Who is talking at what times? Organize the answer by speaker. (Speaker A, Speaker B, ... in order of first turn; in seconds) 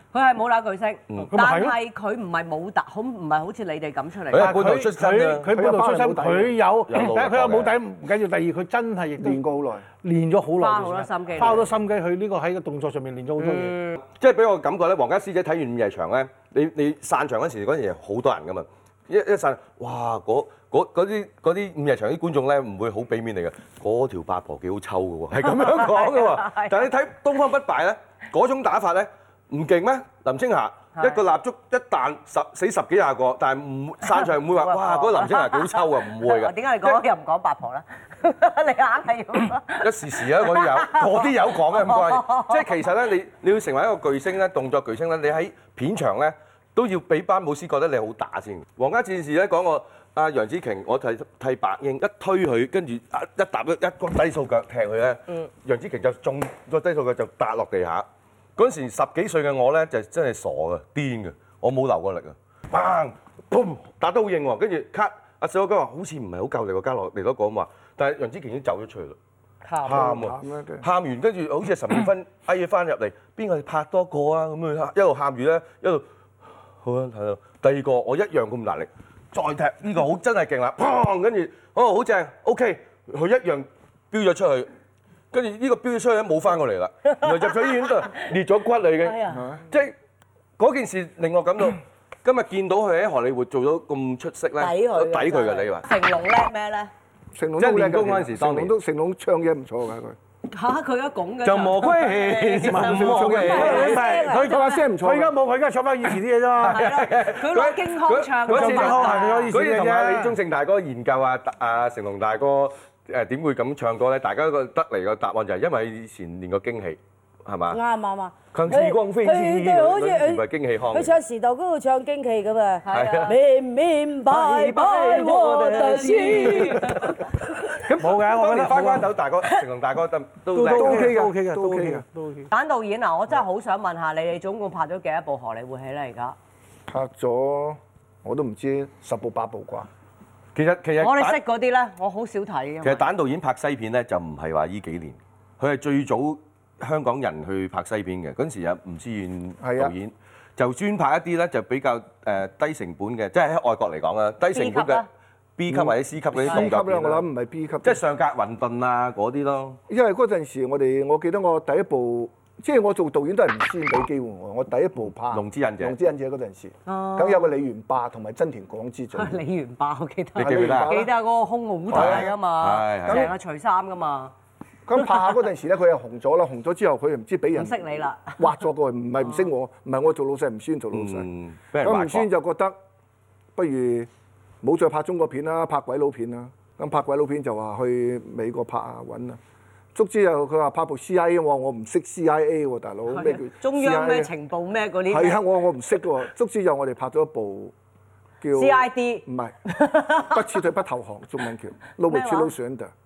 Speaker A: 0.1-4.6, 10.6-11.7, 13.4-14.0, 25.4-26.9, 30.9-31.2, 34.0-42.9, 69.7-70.3, 87.1-88.1, 89.0-89.5, 94.6-96.9, 100.5-104.2, 106.7-109.5, 122.8-123.4, 124.6-127.3, 132.5-136.3, 141.0-143.1, 154.5-155.1, 166.9-167.5, 169.1-174.3, 175.0-175.2, 177.5-178.5, 193.1-195.4, 198.5-200.6, 202.1-202.5
Speaker B: 1.2-1.8, 4.3-9.4, 10.0-13.8, 102.7-106.8, 108.5-110.4, 127.9-129.1, 130.5-132.5
Speaker C: 4.3-5.5, 6.9-7.8, 14.1-37.0, 39.8-58.1, 58.6-69.2, 69.8-76.0, 76.8-84.7, 85.3-89.2, 90.6-95.8, 97.6-98.7, 101.4-104.0, 106.6-117.8, 118.5-121.2, 122.9-123.4, 124.4-126.5, 127.7-131.2, 140.6-141.4, 142.8-155.1, 155.6-157.3, 157.8-159.8, 165.3-165.9, 170.4-170.9, 171.9-173.3, 180.9-182.3
Speaker D: 5.5-6.6, 9.2-9.9, 69.8-70.9, 89.3-89.6, 97.3-100.2, 102.7-105.3, 130.6-132.1, 136.9-139.9, 149.6-149.9, 155.7-158.0, 159.9-169.4, 170.4-171.1, 171.9-172.3, 173.1-173.3, 174.9-181.3, 181.8-182.8, 183.6-184.1, 184.6-189.4, 189.9-194.3, 195.1-197.7, 198.4-199.6, 200.2-202.9
Speaker E: 103.5-104.5, 117.7-127.2